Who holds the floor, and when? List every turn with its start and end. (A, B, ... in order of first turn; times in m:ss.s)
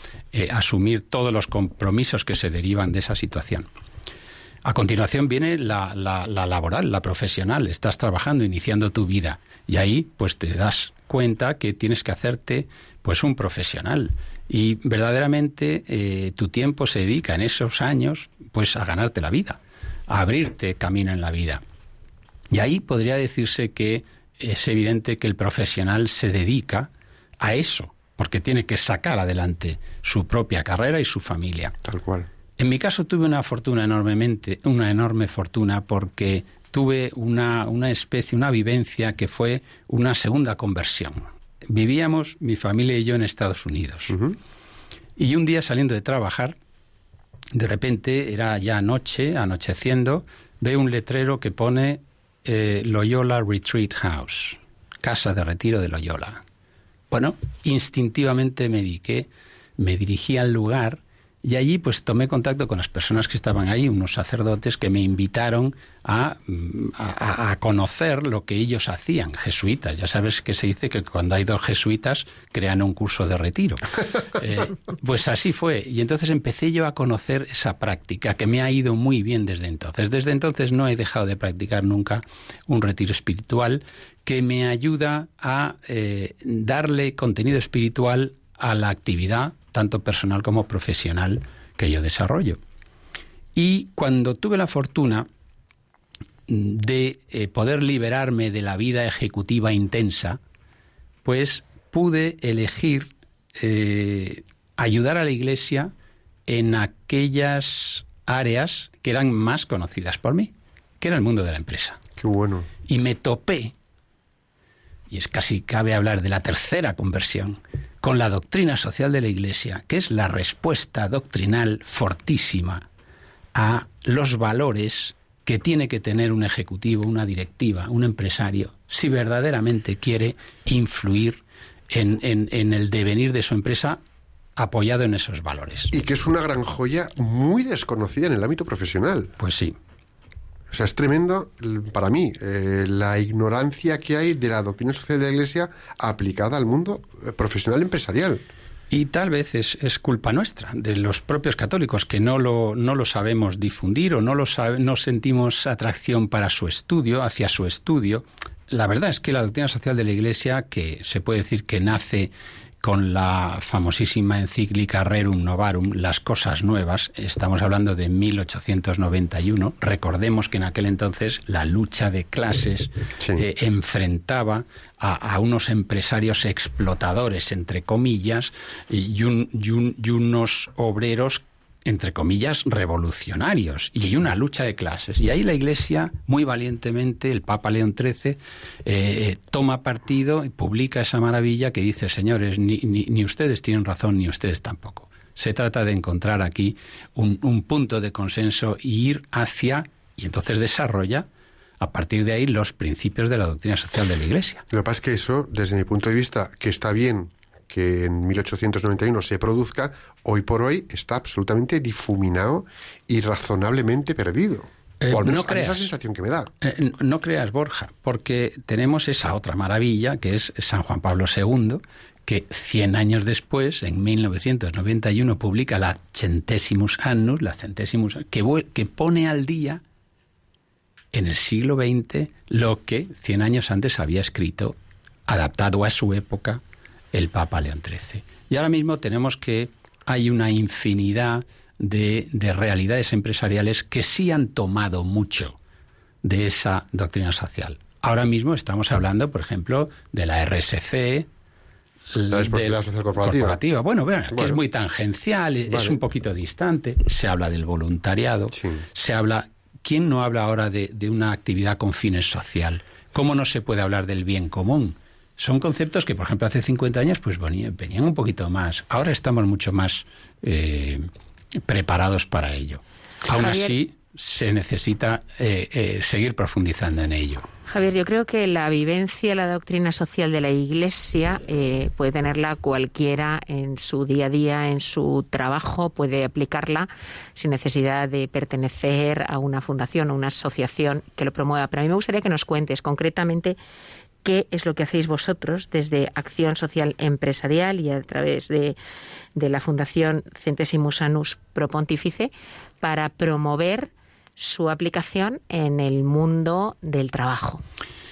0:00.3-0:03.7 A
0:04.6-0:21.6 A
0:22.5-0:31.7 A
0:31.8-0:32.3 B
0:32.6-0:44.2 A
0:45.2-0:46.6 A
0:47.5-0:56.4 A
0:57.1-1:32.6 A
1:33.6-1:35.3 A
1:36.5-1:40.4 A
1:41.2-1:45.9 A
1:46.5-1:52.0 A
1:52.2-1:52.7 B
1:52.9-1:53.7 A
1:55.1-2:02.9 A
2:03.5-2:14.0 A
2:14.6-2:16.0 A
2:15.9-2:19.4 B
2:19.4-2:19.8 A
2:20.7-2:28.4 B
2:28.9-3:21.3 A
3:21.8-3:24.6 A
3:24.7-3:36.5 B
3:35.0-3:35.9 A
3:36.6-3:49.8 A
3:51.1-3:54.8 A
3:55.3-3:56.6 A
3:57.1-4:05.6 A
4:06.2-4:11.3 A
4:12.1-4:31.1 A
4:12.3-4:13.6 B
4:14.3-4:14.6 B
4:15.7-4:16.0 B
4:18.6-4:18.8 B
4:31.7-4:37.5 A
4:33.3-4:33.8 C
4:37.7-4:53.6 C
4:54.2-4:58.8 C
4:59.4-5:07.6 C